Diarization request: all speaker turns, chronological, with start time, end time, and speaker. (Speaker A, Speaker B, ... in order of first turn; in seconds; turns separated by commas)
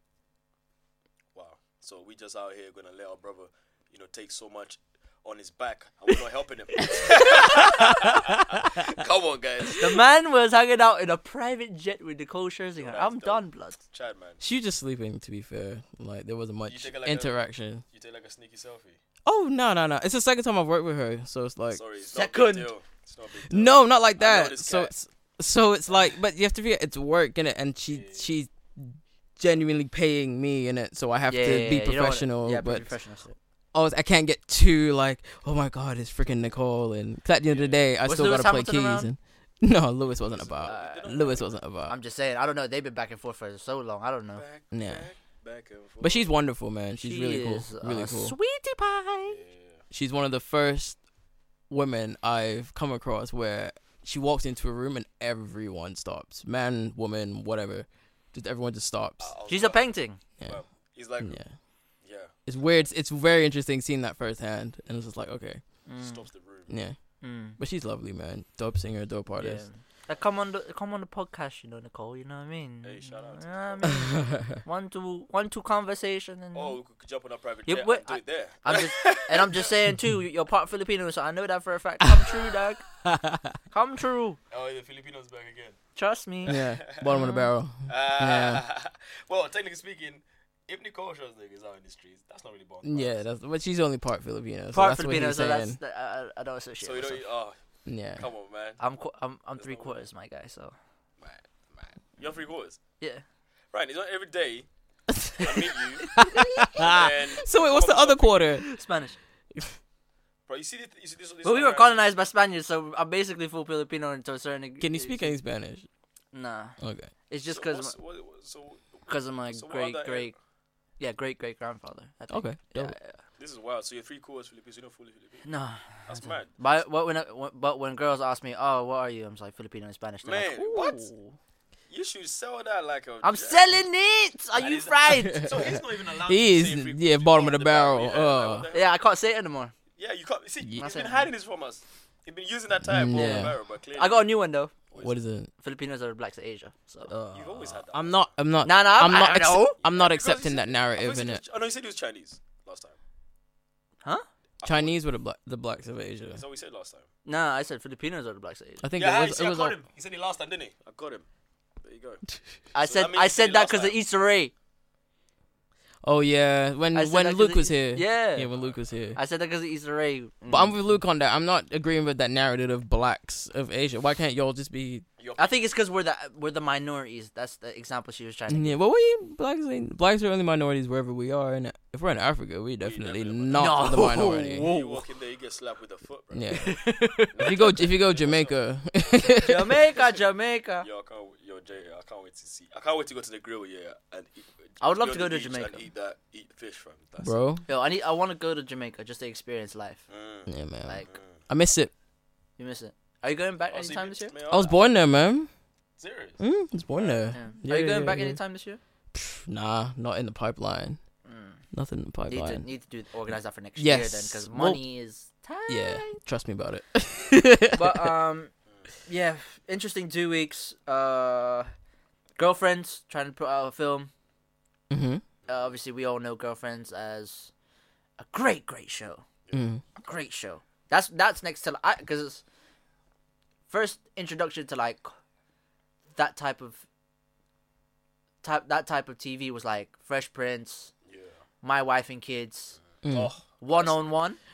Speaker A: 1.4-10.0, Speaker B: 7.4-7.7, Speaker C: 9.8-13.8, Speaker A: 12.8-14.4, Speaker B: 14.4-17.8, Speaker A: 16.7-19.0, Speaker B: 19.2-21.8, Speaker A: 21.7-24.9, Speaker C: 22.1-22.7, Speaker B: 23.5-32.9, Speaker A: 27.9-28.3, Speaker C: 31.3-33.4, Speaker B: 33.7-42.0, Speaker A: 37.5-37.8, Speaker C: 38.0-39.1, Speaker A: 40.1-41.6, Speaker C: 40.7-41.1, Speaker C: 41.9-44.4, Speaker A: 44.3-46.3, Speaker B: 44.7-45.1, Speaker B: 46.0-48.4, Speaker C: 47.0-49.4, Speaker A: 49.3-49.8, Speaker B: 49.9-51.1, Speaker B: 51.7-59.3, Speaker A: 59.2-61.5, Speaker C: 59.5-60.2, Speaker B: 60.4-61.6, Speaker A: 62.0-62.3, Speaker B: 62.5-65.6, Speaker C: 65.9-66.3, Speaker A: 66.0-66.7, Speaker B: 66.7-69.7, Speaker C: 67.2-67.6, Speaker C: 69.4-76.8, Speaker A: 72.8-74.2, Speaker A: 76.5-79.7, Speaker C: 77.7-82.8, Speaker B: 83.1-83.5, Speaker C: 83.7-84.4, Speaker A: 84.5-85.8, Speaker C: 86.0-87.4, Speaker A: 86.5-87.2, Speaker B: 86.5-88.6, Speaker A: 87.8-93.2, Speaker B: 92.8-95.8, Speaker C: 94.7-97.2, Speaker A: 96.8-97.6, Speaker B: 97.9-98.3, Speaker A: 98.1-98.8, Speaker C: 98.8-100.8, Speaker A: 99.6-100.0, Speaker A: 101.2-102.8, Speaker A: 103.7-104.7, Speaker A: 105.2-106.2, Speaker B: 106.2-108.7, Speaker C: 106.3-106.6, Speaker A: 106.8-108.5, Speaker C: 108.7-109.2, Speaker A: 110.5-112.1, Speaker C: 111.4-115.3, Speaker B: 114.8-115.9, Speaker C: 116.3-116.8, Speaker B: 116.8-117.1, Speaker C: 117.3-118.0, Speaker A: 117.5-120.3, Speaker C: 119.1-120.4, Speaker C: 121.0-123.2, Speaker B: 122.3-123.0, Speaker A: 123.4-125.5, Speaker C: 125.4-130.7, Speaker A: 126.0-126.7, Speaker A: 130.2-131.1, Speaker B: 130.6-131.3, Speaker A: 131.9-133.8, Speaker C: 133.2-135.6, Speaker A: 134.6-138.9, Speaker B: 136.3-138.7, Speaker C: 138.7-139.7, Speaker A: 140.0-144.3, Speaker B: 140.6-140.9, Speaker C: 140.8-141.3, Speaker B: 142.8-143.6, Speaker C: 143.2-144.8, Speaker A: 144.9-145.2, Speaker B: 145.0-145.5, Speaker C: 145.6-147.1, Speaker B: 147.1-151.4, Speaker A: 147.3-148.3, Speaker C: 148.6-149.8, Speaker A: 149.8-152.9, Speaker A: 154.6-155.0, Speaker B: 154.6-156.4, Speaker A: 156.3-157.1, Speaker C: 157.3-158.9, Speaker B: 158.8-159.8, Speaker A: 159.0-161.3, Speaker A: 161.8-164.0, Speaker C: 162.8-164.5, Speaker B: 166.0-169.2, Speaker C: 166.9-168.5, Speaker A: 168.5-169.0, Speaker C: 169.2-171.0, Speaker B: 170.5-175.1, Speaker A: 175.2-175.6, Speaker C: 175.4-178.8, Speaker B: 178.5-184.7, Speaker A: 182.8-186.8, Speaker C: 183.5-185.1, Speaker B: 186.3-189.7, Speaker C: 186.6-187.4, Speaker A: 187.3-189.3, Speaker C: 189.4-190.9, Speaker A: 190.8-197.4, Speaker C: 194.8-195.9, Speaker B: 197.2-197.6, Speaker C: 197.7-200.1, Speaker A: 200.1-200.5, Speaker B: 200.5-201.9, Speaker C: 200.8-201.1, Speaker A: 201.1-201.4, Speaker C: 202.6-204.3, Speaker A: 203.7-204.8, Speaker B: 204.5-205.5, Speaker A: 206.0-207.3, Speaker B: 206.4-208.4, Speaker C: 207.3-208.8, Speaker B: 209.1-211.0, Speaker C: 211.2-211.6, Speaker B: 211.7-212.7, Speaker C: 212.3-216.2, Speaker B: 213.8-214.8, Speaker B: 215.7-218.1, Speaker C: 217.7-218.5, Speaker C: 219.1-221.7, Speaker C: 222.4-224.1, Speaker B: 224.9-225.2, Speaker A: 225.4-225.7, Speaker C: 225.5-227.5, Speaker C: 228.2-229.2, Speaker B: 229.5-229.8, Speaker C: 230.0-232.4, Speaker C: 233.7-235.1, Speaker C: 236.2-236.8, Speaker C: 238.4-240.9, Speaker A: 241.1-241.4, Speaker C: 241.6-242.8, Speaker A: 243.0-244.0, Speaker B: 243.0-243.3, Speaker C: 243.6-244.4